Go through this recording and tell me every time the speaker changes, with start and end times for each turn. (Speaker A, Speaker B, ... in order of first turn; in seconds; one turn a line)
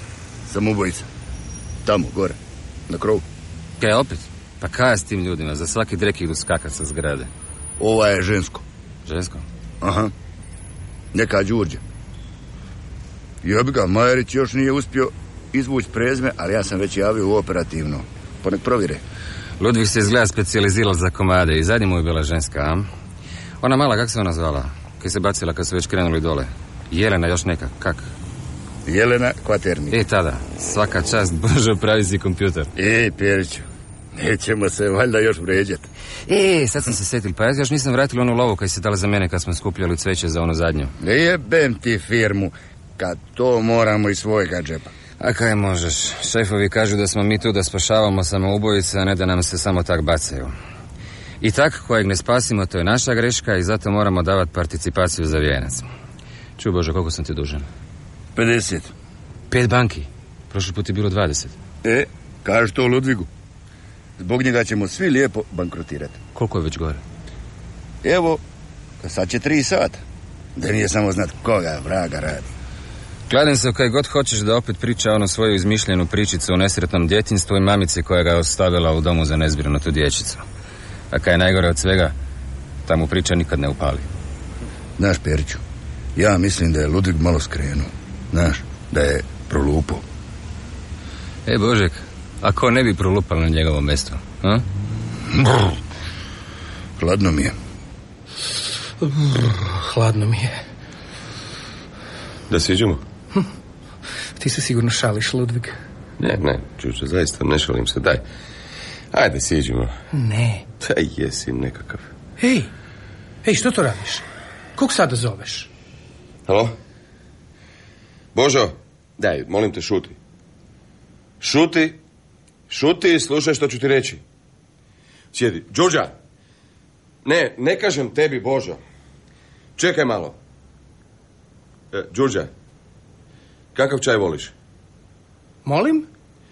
Speaker A: 0.5-1.1
Speaker A: 1.8-2.4
Speaker A: 2.9-3.2
Speaker B: 3.8-7.3
Speaker A: 7.8-8.6
Speaker B: 9.1-9.4
Speaker A: 9.8-10.1
Speaker A: 11.1-11.8
Speaker A: 13.4-19.0
Speaker B: 19.6-22.9
Speaker B: 23.6-28.1
Speaker A: 28.9-30.0
Speaker B: 29.9-32.7
Speaker A: 32.8-35.9
Speaker B: 36.3-40.9
Speaker A: 41.0-44.9
Speaker B: 45.2-50.5
Speaker B: 51.4-55.9
Speaker B: 56.6-57.6
Speaker A: 58.3-58.9
Speaker B: 59.5-61.5
Speaker A: 61.8-63.3
Speaker A: 64.2-66.2
Speaker B: 66.3-67.0
Speaker A: 68.0-68.4
Speaker A: 69.0-70.0
Speaker A: 70.5-72.5
Speaker B: 73.3-80.4
Speaker B: 81.1-82.1
Speaker B: 82.8-84.0
Speaker A: 85.0-85.6
Speaker A: 86.2-90.0
Speaker B: 91.5-94.6
Speaker A: 95.3-95.7
Speaker A: 97.0-97.5
Speaker C: 99.0-100.6
Speaker D: 102.5-103.0
Speaker C: 104.4-105.8
Speaker D: 106.2-108.2
Speaker D: 109.1-109.9
Speaker C: 110.1-110.6
Speaker D: 110.8-112.1
Speaker C: 112.4-112.7
Speaker C: 113.4-114.2
Speaker C: 114.8-115.7
Speaker D: 116.5-116.7
Speaker D: 118.3-120.2
Speaker D: 121.4-122.0
Speaker D: 122.7-124.2
Speaker D: 125.3-126.1
Speaker D: 127.2-128.8
Speaker D: 129.8-130.3
Speaker D: 131.9-132.5
Speaker D: 133.7-134.5
Speaker C: 135.6-136.1